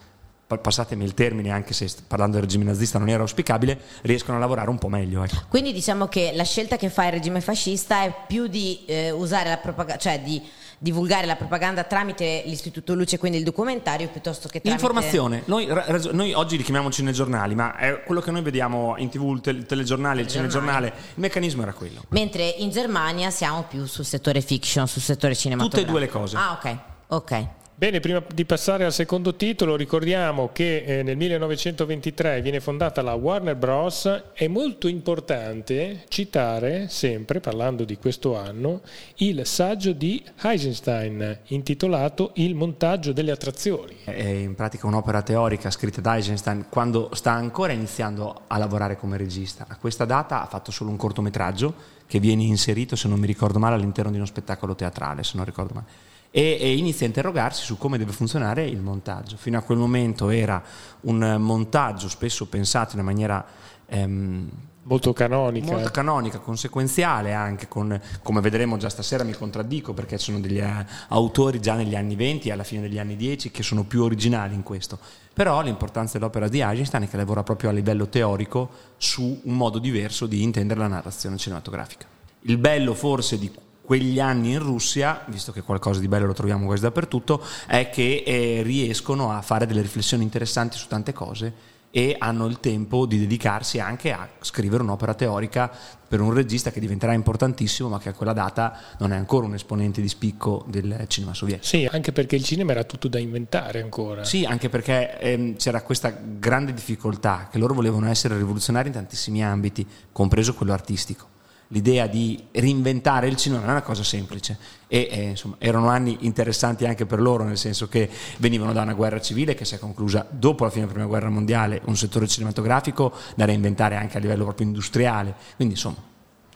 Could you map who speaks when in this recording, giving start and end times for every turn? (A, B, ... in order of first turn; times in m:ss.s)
0:00.5-0:05.4 A
0:05.4-0:15.2 B
0:14.6-0:22.1 A
0:20.2-0:20.8 B
0:22.1-0:27.5 B
0:25.6-0:26.4 A
0:27.8-0:44.0 C
0:44.1-1:04.7 A
1:04.8-1:05.9 C
1:05.6-1:41.6 A
1:41.6-1:44.3 C
1:44.2-2:06.0 A